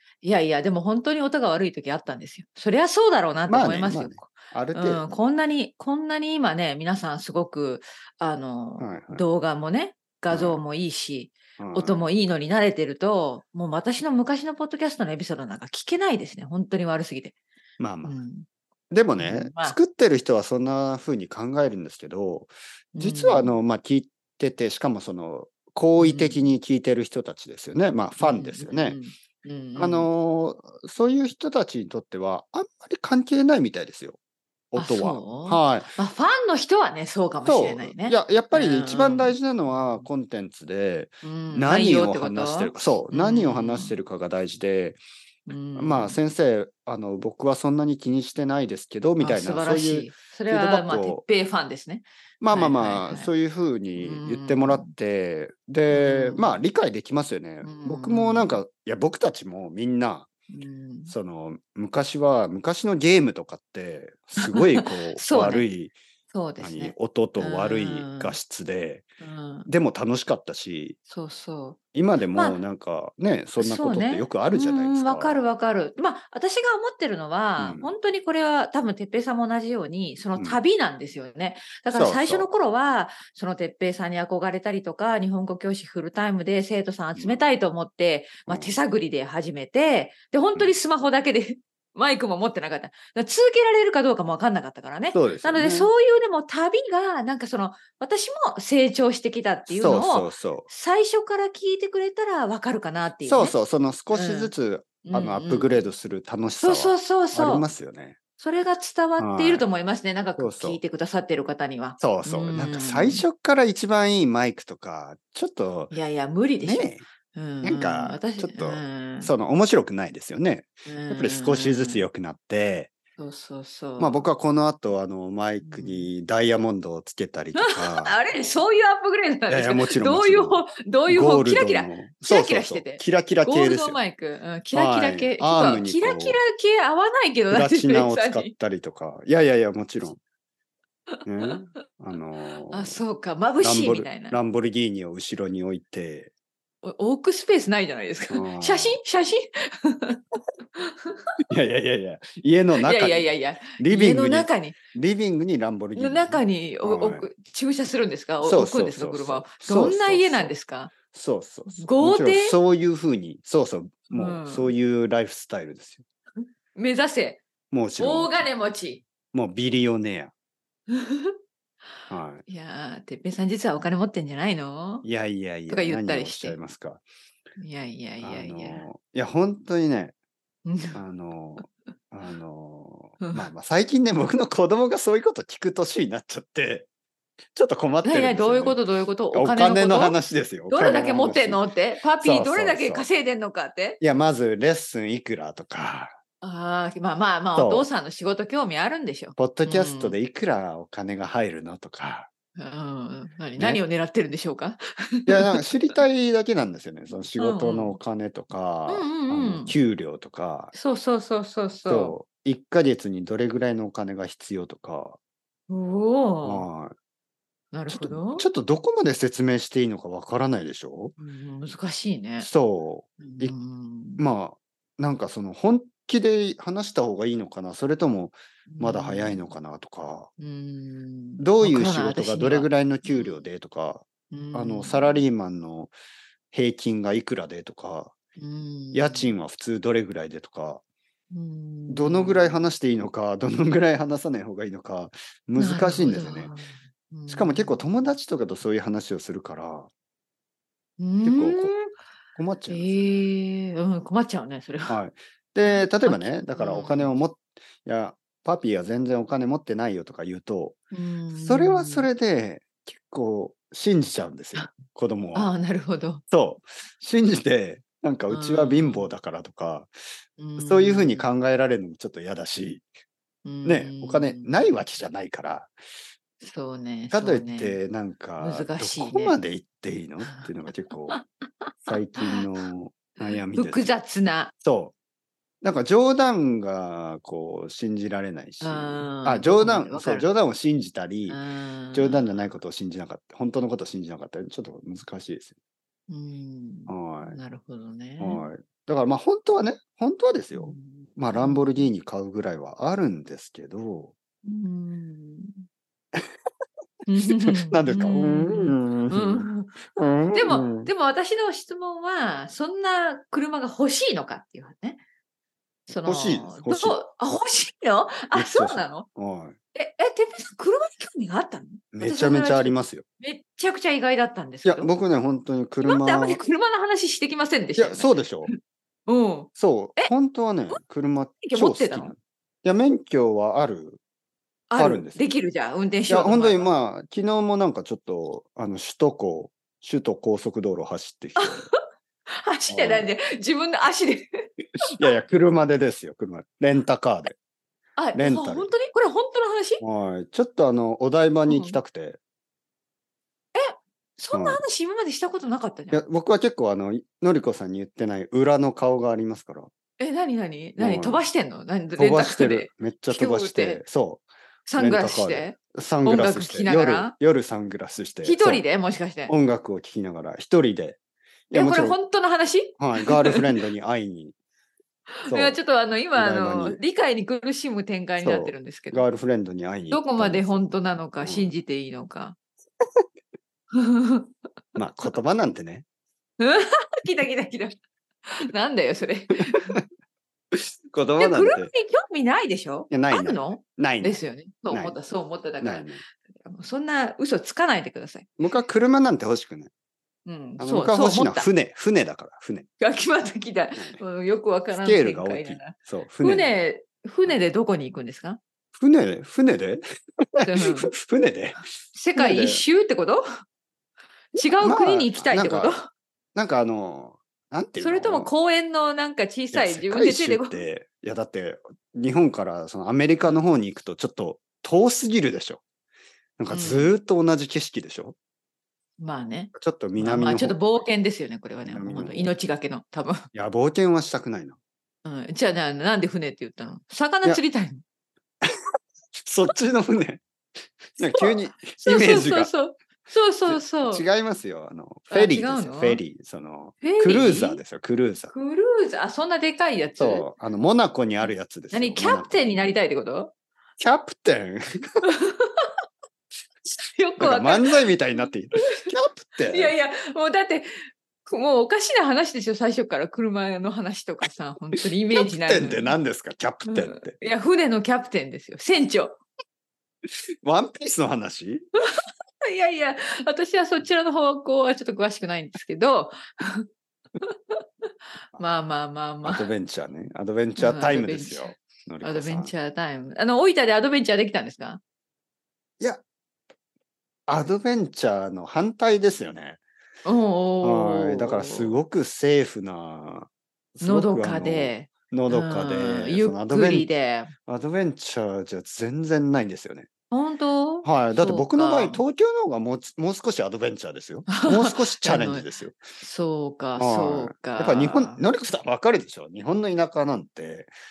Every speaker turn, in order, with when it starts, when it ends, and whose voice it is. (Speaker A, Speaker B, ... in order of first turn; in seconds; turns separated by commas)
Speaker A: 0.2-17.4, Speaker B: 3.5-5.0, Speaker B: 8.8-9.2, Speaker B: 10.3-10.6, Speaker B: 11.6-12.1, Speaker B: 17.8-18.2, Speaker A: 18.0-18.5, Speaker B: 18.9-29.0, Speaker A: 19.2-19.8, Speaker A: 22.9-23.5, Speaker A: 26.0-26.5, Speaker A: 28.2-30.1, Speaker B: 29.8-34.2, Speaker B: 34.7-35.9, Speaker A: 34.8-40.1, Speaker B: 37.4-45.0, Speaker A: 41.2-44.0, Speaker A: 45.5-46.2, Speaker B: 45.8-51.2, Speaker A: 49.2-53.3, Speaker B: 52.4-60.3, Speaker A: 54.0-54.9, Speaker A: 55.9-56.6, Speaker A: 57.6-58.6, Speaker A: 60.5-61.1, Speaker B: 61.1-66.0, Speaker A: 64.5-65.7, Speaker A: 66.3-68.4, Speaker B: 66.6-69.1, Speaker A: 69.2-69.7, Speaker B: 69.7-71.0, Speaker A: 71.1-71.8, Speaker B: 71.9-75.4, Speaker A: 72.3-72.6, Speaker A: 73.6-103.5, Speaker B: 77.6-77.9, Speaker B: 80.4-80.6, Speaker B: 81.9-82.5, Speaker B: 87.2-87.5, Speaker B: 88.5-88.8, Speaker B: 95.1-95.9, Speaker B: 99.7-100.7, Speaker B: 103.2-108.2, Speaker A: 104.1-104.5, Speaker A: 105.0-105.9, Speaker A: 106.6-107.7, Speaker A: 108.4-113.2, Speaker B: 109.2-109.7, Speaker B: 110.4-110.8, Speaker B: 112.0-115.9, Speaker A: 115.9-119.3, Speaker B: 116.6-117.1, Speaker B: 117.6-122.9, Speaker A: 120.9-122.1, Speaker A: 123.2-124.3, Speaker B: 124.0-128.2, Speaker A: 125.6-126.1, Speaker A: 127.6-138.5, Speaker B: 129.5-134.0, Speaker B: 134.7-136.4, Speaker B: 137.5-140.2, Speaker A: 141.1-141.5, Speaker B: 141.3-143.0, Speaker A: 142.7-144.4, Speaker B: 143.6-146.3, Speaker A: 146.8-150.2, Speaker B: 148.3-149.0, Speaker A: 150.8-151.2, Speaker B: 151.5-157.3, Speaker A: 152.8-154.8, Speaker A: 155.9-160.9, Speaker B: 158.4-160.6, Speaker B: 161.1-166.0, Speaker A: 161.7-162.6, Speaker A: 164.1-164.8, Speaker A: 166.4-167.4, Speaker B: 167.7-168.5, Speaker A: 168.0-169.0, Speaker B: 169.3-170.3, Speaker A: 171.0-171.3, Speaker B: 172.1-172.4, Speaker A: 172.5-175.1, Speaker B: 175.0-177.1, Speaker A: 175.7-176.6, Speaker A: 177.6-178.9, Speaker B: 178.2-180.2, Speaker A: 180.7-181.0, Speaker B: 180.9-186.9, Speaker A: 183.2-183.5, Speaker B: 187.6-188.8, Speaker A: 188.0-194.0, Speaker B: 189.3-191.7, Speaker B: 192.2-193.1, Speaker B: 194.0-196.2, Speaker A: 196.4-200.2, Speaker B: 197.6-197.9, Speaker B: 199.4-202.3, Speaker A: 202.6-205.9, Speaker B: 205.3-210.7, Speaker A: 207.4-208.0, Speaker A: 208.9-209.8, Speaker A: 210.7-212.2, Speaker B: 211.9-215.2, Speaker A: 215.7-216.7, Speaker B: 216.4-216.9, Speaker A: 217.7-218.5, Speaker B: 217.9-221.2, Speaker A: 221.2-222.5, Speaker B: 222.4-223.6, Speaker A: 223.2-224.2, Speaker B: 224.2-230.3, Speaker A: 228.7-229.5, Speaker A: 230.4-233.4, Speaker B: 231.4-235.9, Speaker A: 234.3-235.2, Speaker B: 236.5-238.1, Speaker A: 238.4-239.3, Speaker B: 238.9-240.8, Speaker A: 241.3-242.6, Speaker B: 241.9-246.5, Speaker A: 245.6-247.9, Speaker B: 247.3-249.9, Speaker A: 251.0-251.9, Speaker B: 251.2-251.8, Speaker B: 252.4-253.2, Speaker A: 252.7-255.0, Speaker B: 254.9-260.8, Speaker A: 255.6-257.2, Speaker A: 260.9-262.1, Speaker B: 261.4-265.5, Speaker A: 265.3-266.2, Speaker B: 266.3-269.9, Speaker A: 268.3-269.1, Speaker A: 270.4-271.3, Speaker B: 270.6-272.9, Speaker A: 273.4-274.8, Speaker B: 273.6-275.7, Speaker A: 276.4-277.8, Speaker B: 277.1-281.2, Speaker A: 278.4-279.4, Speaker A: 281.1-282.4, Speaker B: 281.9-283.9, Speaker A: 283.2-284.5, Speaker B: 284.6-284.9, Speaker B: 285.6-291.4, Speaker A: 288.6-290.3, Speaker A: 291.3-292.3, Speaker B: 291.9-295.5, Speaker A: 296.1-298.5, Speaker B: 296.9-297.4, Speaker B: 298.2-304.1, Speaker A: 300.5-301.9, Speaker A: 304.4-305.6, Speaker A: 307.1-309.8, Speaker B: 307.3-310.9, Speaker A: 310.3-315.0, Speaker A: 315.9-319.1, Speaker B: 316.1-317.0, Speaker B: 318.3-319.6, Speaker A: 319.7-324.9, Speaker B: 321.9-323.0, Speaker B: 324.6-326.4, Speaker A: 325.9-328.6, Speaker B: 327.8-328.5, Speaker A: 329.1-330.1, Speaker B: 329.6-334.0, Speaker A: 331.4-332.1, Speaker A: 334.7-336.7, Speaker B: 334.8-335.2, Speaker B: 336.1-341.6, Speaker A: 341.4-345.1, Speaker B: 342.7-343.1, Speaker B: 344.8-347.4, Speaker A: 348.0-349.8, Speaker B: 348.1-348.7, Speaker B: 349.8-352.2, Speaker A: 351.5-351.8, Speaker A: 353.6-356.0, Speaker B: 354.3-354.6, Speaker B: 355.9-359.7, Speaker A: 360.0-363.8, Speaker B: 360.8-361.2, Speaker B: 362.0-368.7, Speaker A: 364.7-367.1, Speaker A: 368.2-369.3, Speaker B: 369.3-371.0, Speaker B: 371.5-372.0, Speaker A: 371.5-373.4, Speaker B: 372.8-374.4, Speaker A: 375.2-379.0, Speaker B: 375.3-375.6, Speaker B: 376.1-376.8, Speaker B: 378.2-380.6, Speaker A: 379.9-382.4, Speaker B: 381.2-381.6, Speaker A: 383.7-384.3, Speaker B: 384.8-385.9, Speaker A: 386.4-387.8, Speaker A: 388.3-389.8, Speaker B: 390.5-391.7, Speaker A: 391.2-398.3, Speaker B: 392.9-394.2, Speaker B: 394.7-395.0, Speaker B: 395.6-396.0, Speaker B: 398.4-399.7, Speaker A: 400.2-401.5, Speaker B: 400.6-402.7, Speaker A: 402.8-408.4, Speaker B: 403.8-404.0, Speaker B: 404.7-406.5, Speaker B: 408.8-411.6, Speaker A: 410.4-410.9, Speaker A: 411.9-413.2, Speaker B: 412.1-412.6, Speaker A: 414.3-415.9, Speaker B: 414.4-415.8, Speaker B: 416.4-418.3, Speaker A: 417.8-420.6, Speaker B: 419.5-425.6, Speaker B: 426.4-428.2, Speaker A: 426.5-426.9, Speaker A: 429.0-433.2, Speaker B: 429.5-430.6, Speaker B: 431.7-432.3, Speaker B: 433.3-434.6, Speaker A: 435.0-437.8, Speaker B: 439.2-440.2, Speaker B: 441.0-442.5, Speaker A: 441.1-444.0, Speaker B: 443.5-448.3, Speaker A: 445.1-446.0, Speaker A: 446.8-447.6, Speaker A: 448.3-450.3, Speaker B: 450.0-452.6, Speaker A: 451.7-453.3, Speaker B: 453.8-455.1, Speaker A: 455.1-455.7, Speaker A: 456.6-458.2, Speaker B: 457.2-459.8, Speaker A: 459.4-460.7, Speaker A: 461.2-466.0, Speaker B: 465.1-467.2, Speaker A: 466.7-469.2, Speaker B: 470.4-471.7, Speaker A: 472.4-476.7, Speaker A: 478.4-479.5, Speaker B: 479.2-482.5, Speaker A: 480.6-484.8, Speaker B: 487.3-489.6, Speaker A: 490.1-491.8, Speaker B: 490.6-496.9, Speaker A: 493.8-497.3, Speaker B: 497.5-499.9, Speaker A: 500.1-502.0, Speaker B: 500.8-505.8, Speaker A: 504.3-505.5, Speaker A: 506.0-508.2, Speaker B: 506.8-510.7